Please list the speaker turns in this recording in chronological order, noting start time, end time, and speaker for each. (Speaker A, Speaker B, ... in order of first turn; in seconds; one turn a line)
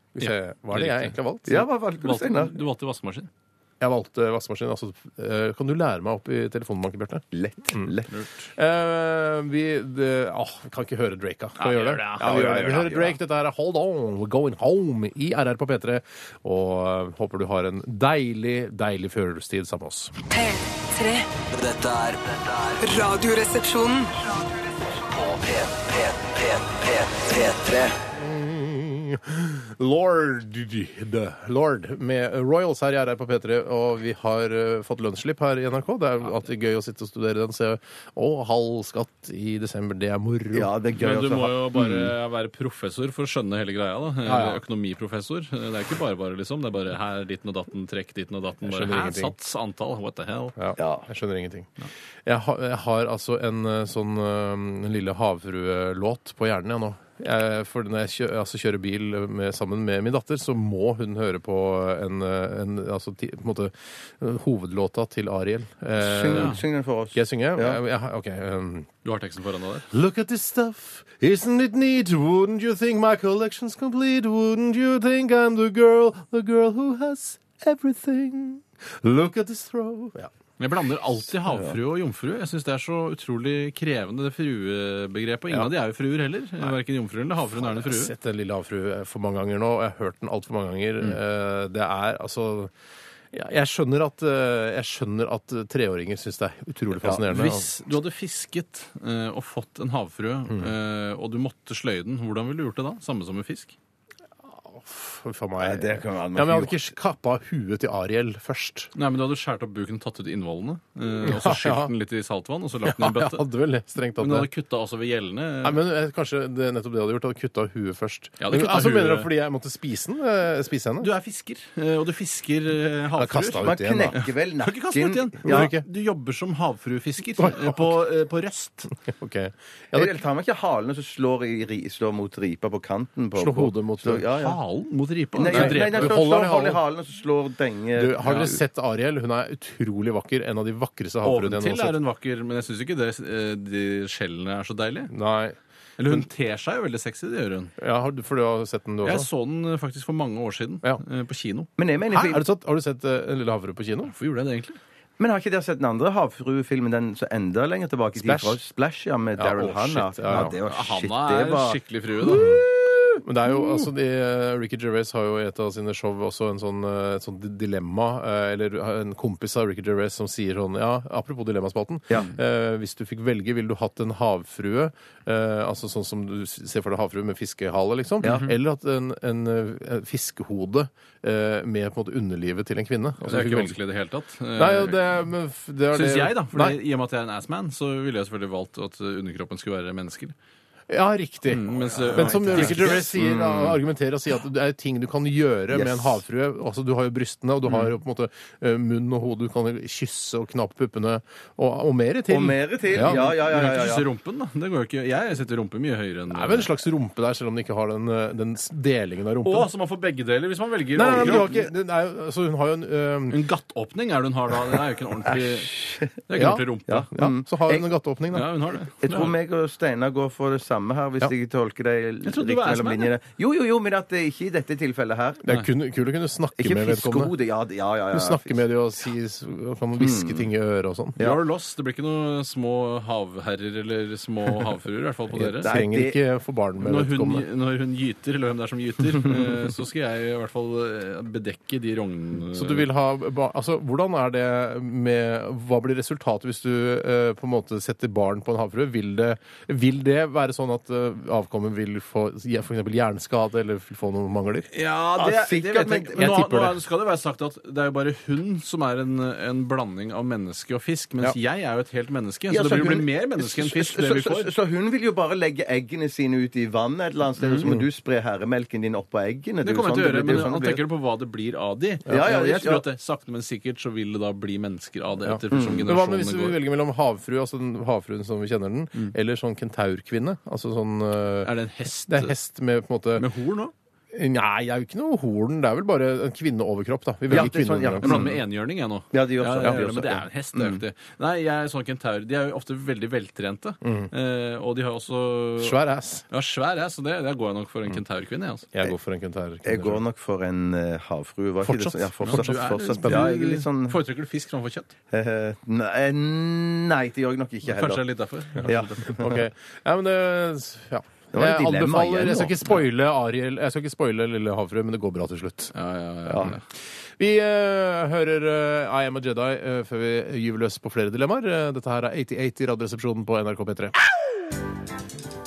Speaker A: 0.1-1.7
Speaker B: 0.2-1.1
Speaker C: 1.5-2.5
Speaker B: 2.0-3.3
Speaker A: 3.8-7.9
Speaker C: 7.3-8.1
Speaker A: 8.5-20.1
Speaker B: 11.6-12.6
Speaker C: 12.2-13.1
Speaker D: 20.3-21.4
Speaker E: 21.5-22.9
Speaker D: 22.8-24.2
Speaker E: 24.9-27.9
Speaker A: 28.1-40.7
Speaker C: 40.5-42.1
Speaker B: 41.0-50.5
Speaker A: 44.2-44.6
Speaker A: 48.6-49.3
Speaker A: 50.5-51.7
Speaker C: 50.8-51.1
Speaker A: 52.2-66.6
Speaker C: 66.0-67.8
Speaker B: 66.3-66.6
Speaker A: 67.1-68.9
Speaker B: 69.0-69.8
Speaker A: 69.9-80.3
Speaker B: 80.6-88.1
Speaker A: 87.5-92.7
Speaker A: 93.3-97.7
Speaker B: 97.3-103.8
Speaker A: 104.5-108.9
Speaker C: 105.6-106.9
Speaker B: 108.9-113.4
Speaker A: 111.2-111.9
Speaker A: 112.8-114.5
Speaker B: 114.2-115.8
Speaker A: 115.6-121.1
Speaker B: 118.4-119.3
Speaker B: 121.0-128.9
Speaker A: 123.2-124.2
Speaker C: 123.6-125.7
Speaker A: 125.4-125.8
Speaker A: 127.4-127.9
Speaker A: 129.0-130.1
Speaker C: 129.9-134.6
Speaker A: 133.3-134.2
Speaker B: 134.3-136.2
Speaker C: 135.3-138.6
Speaker A: 135.5-136.8
Speaker A: 137.9-142.0
Speaker B: 141.2-145.1
Speaker A: 145.1-145.6
Speaker B: 146.0-147.7
Speaker A: 147.8-149.3
Speaker B: 149.0-151.7
Speaker C: 151.8-152.4
Speaker A: 152.0-154.1
Speaker B: 154.1-154.8
Speaker C: 155.2-163.7
Speaker A: 158.1-158.6
Speaker A: 159.3-160.6
Speaker B: 160.3-162.4
Speaker A: 162.3-162.6
Speaker A: 163.2-183.8
Speaker C: 178.2-178.5
Speaker B: 178.2-178.5
Speaker B: 183.2-185.0
Speaker A: 184.6-186.8
Speaker B: 185.9-190.3
Speaker A: 190.9-203.2
Speaker B: 191.5-193.2
Speaker C: 192.0-193.8
Speaker C: 195.7-196.2
Speaker C: 202.3-204.1
Speaker B: 202.9-206.7
Speaker A: 206.3-209.7
Speaker B: 209.4-211.7
Speaker A: 210.9-213.4
Speaker B: 213.3-217.1
Speaker C: 215.3-216.2
Speaker A: 216.3-218.5
Speaker C: 216.9-217.9
Speaker B: 218.3-219.3
Speaker C: 219.0-225.4
Speaker B: 222.2-223.1
Speaker A: 225.4-227.3
Speaker C: 226.6-228.6
Speaker A: 228.1-231.2
Speaker C: 230.0-230.5
Speaker B: 231.2-235.7
Speaker A: 235.3-237.4
Speaker C: 235.6-236.2
Speaker B: 236.8-242.8
Speaker A: 242.5-254.7
Speaker B: 254.7-264.5
Speaker C: 255.2-256.5
Speaker A: 256.2-256.8
Speaker C: 262.5-270.8
Speaker B: 267.4-267.7
Speaker A: 267.6-267.9
Speaker B: 269.6-276.6
Speaker C: 272.1-272.8
Speaker A: 275.2-281.5
Speaker C: 275.5-275.9
Speaker B: 281.4-282.4
Speaker A: 282.1-283.3
Speaker B: 283.2-283.7
Speaker A: 284.1-288.3
Speaker C: 287.3-288.4
Speaker B: 288.0-295.8
Speaker C: 289.1-290.8
Speaker A: 293.8-294.1
Speaker A: 295.6-296.2
Speaker B: 296.3-298.7
Speaker A: 298.7-300.0
Speaker C: 299.6-304.0
Speaker A: 301.6-303.3
Speaker B: 302.2-304.9
Speaker C: 305.1-308.0
Speaker B: 307.7-309.1
Speaker A: 308.6-315.7
Speaker C: 308.6-309.4
Speaker C: 311.3-312.7
Speaker B: 315.7-316.6
Speaker A: 316.3-316.6
Speaker A: 317.2-323.9